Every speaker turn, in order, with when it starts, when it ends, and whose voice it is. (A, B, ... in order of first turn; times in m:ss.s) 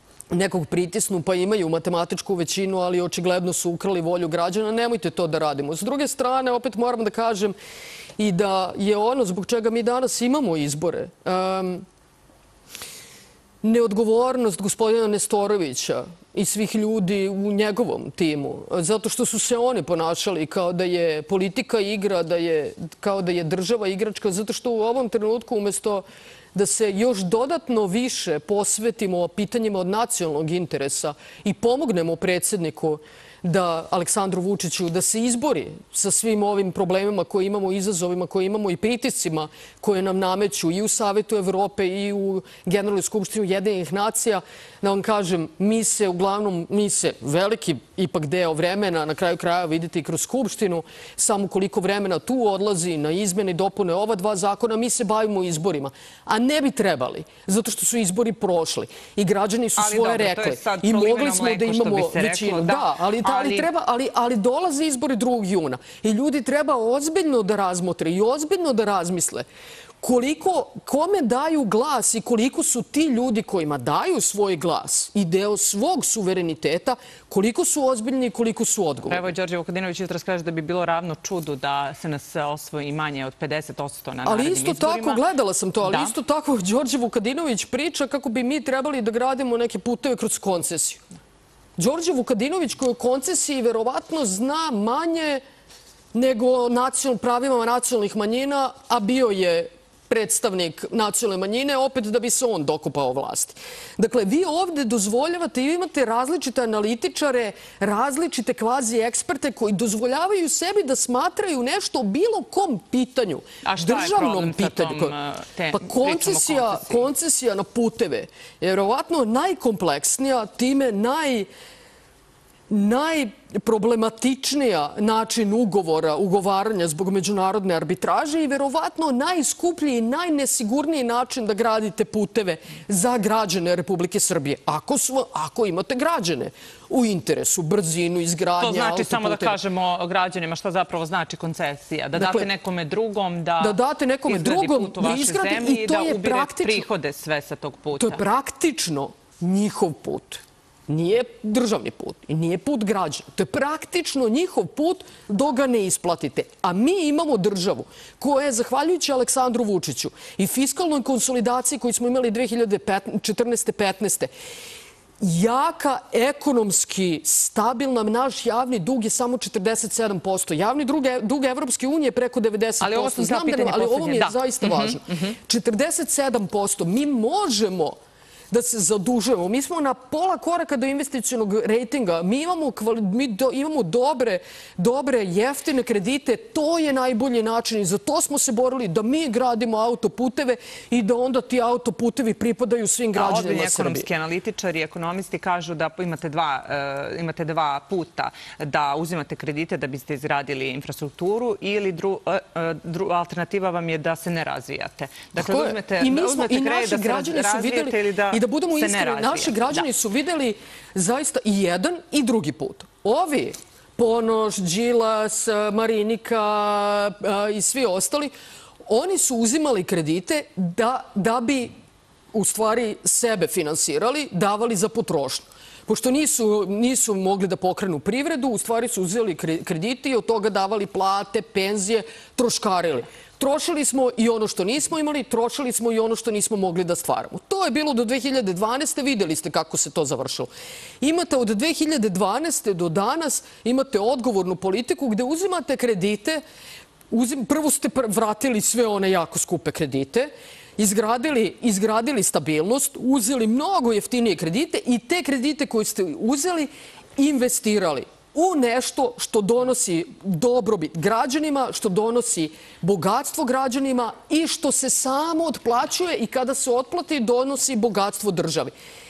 0:00.3-0:07.6 A
0:08.2-0:11.8 A
0:13.6-1:09.4 A
0:59.8-1:03.7 B
1:10.0-1:19.3 A
1:19.0-1:25.2 B
1:24.2-1:31.0 A
1:25.8-1:26.1 B
1:31.8-1:35.4 A
1:36.1-1:55.1 A
1:53.6-1:57.1 B
1:55.7-2:01.5 A
2:02.7-2:19.6 A
2:18.6-2:28.2 B
2:22.1-2:22.5 A
2:23.6-2:26.9 A
2:28.0-2:44.3 A
2:45.2-2:58.0 A
2:52.8-2:55.4 B
2:58.5-3:14.1 A
3:13.1-3:29.8 B
3:25.3-3:38.3 A
3:38.8-3:41.7 A
3:42.3-4:00.5 A
4:01.0-4:06.4 A
4:07.1-4:28.7 A